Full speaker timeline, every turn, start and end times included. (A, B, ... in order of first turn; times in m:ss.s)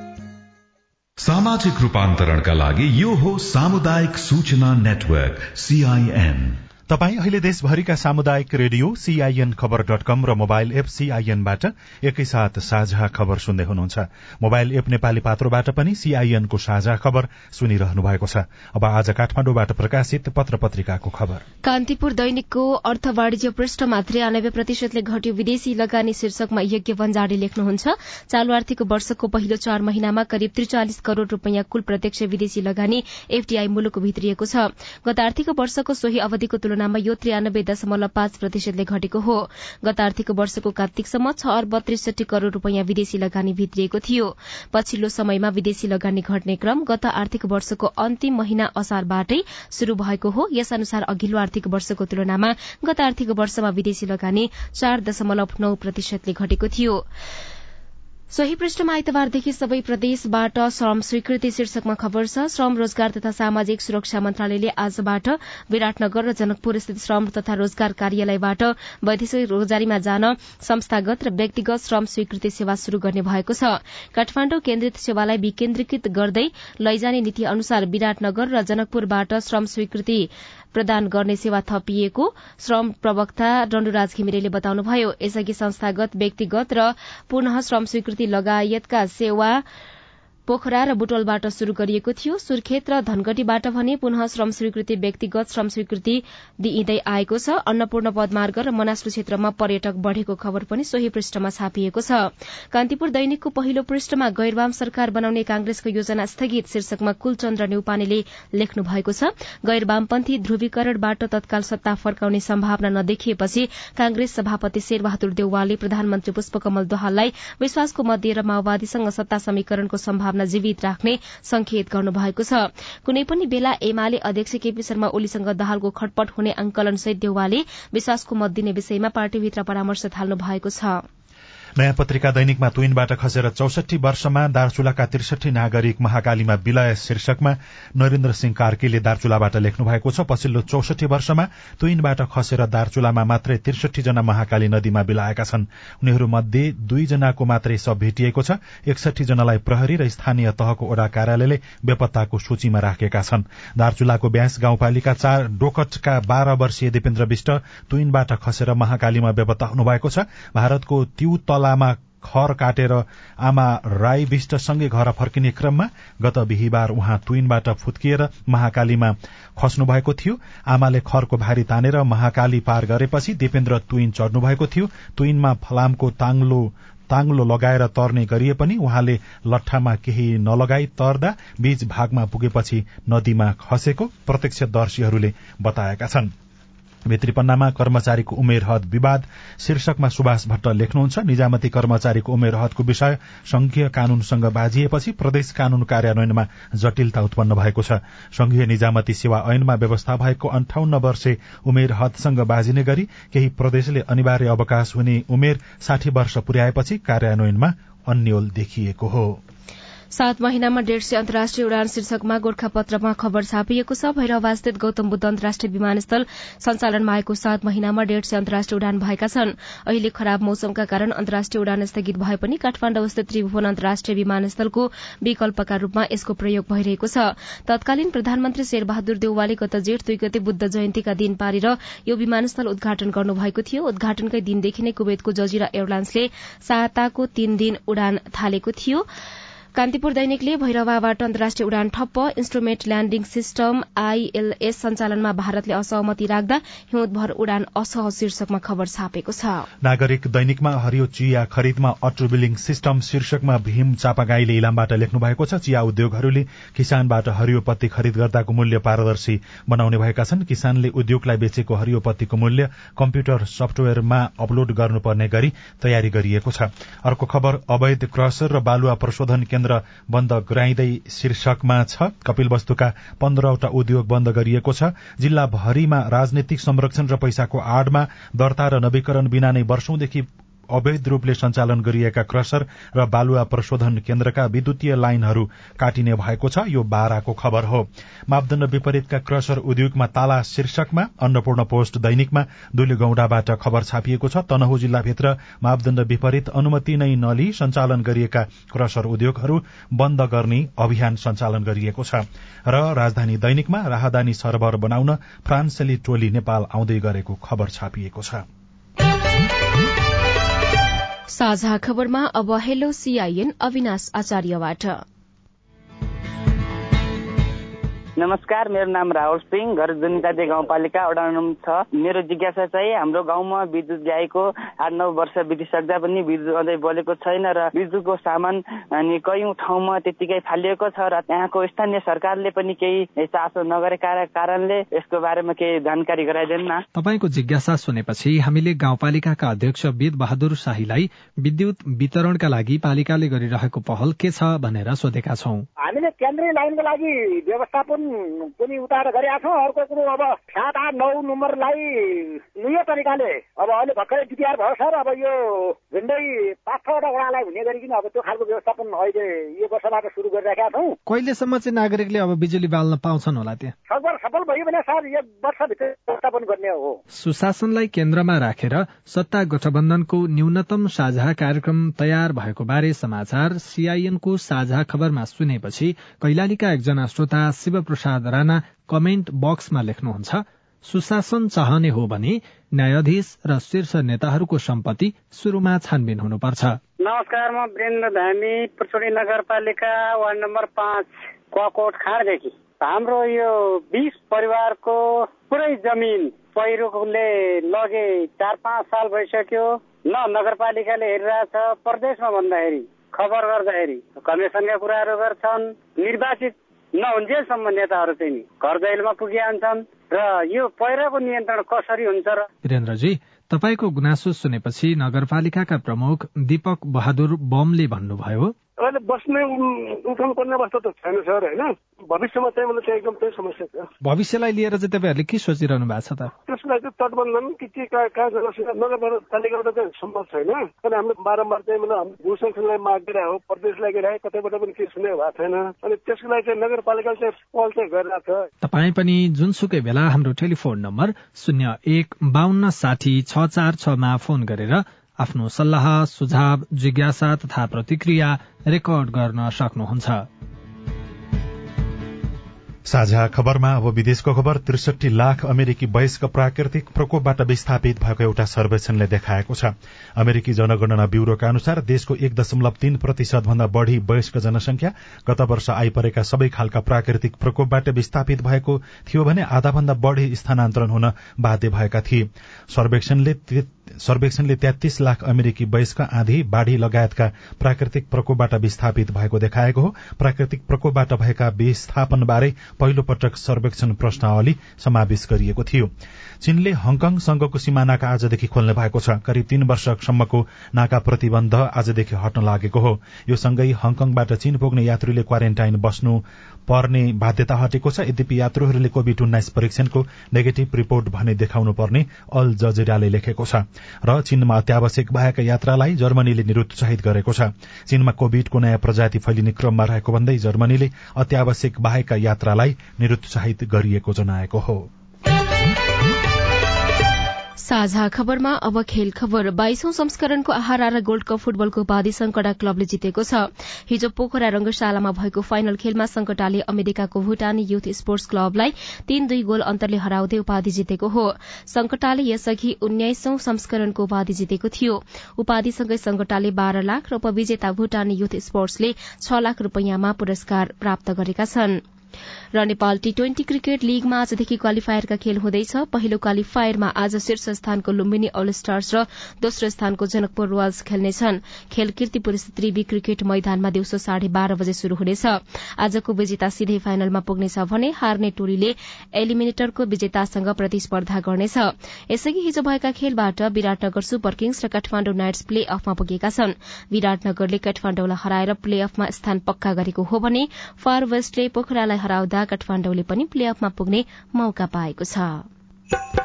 0:01.2-0:06.6 A
0:06.9-0:21.4 B
0:21.6-0:57.0 C
0:58.3-1:29.6 C
1:30.5-1:42.2 C
1:42.7-2:11.0 C
2:11.8-3:06.3 B
3:07.0-3:29.4 B
3:30.1-3:59.0 C
3:59.8-4:09.7 C
4:09.8-5:08.4 B
5:11.3-5:15.0 C
5:18.2-5:36.8 D
5:36.9-5:45.6 E
5:45.8-6:00.9 F
6:01.1-6:03.7 E
6:03.9-6:07.0 F
6:07.1-6:26.8 E
6:27.0-6:52.4 G
6:52.6-6:58.5 E
6:58.8-7:03.9 H
7:04.0-7:06.3 E
7:06.4-7:18.5 H
7:18.6-7:30.2 E
7:32.8-8:05.9 B
8:06.4-8:34.9 B
8:37.6-9:01.8 C
9:02.5-9:35.4 C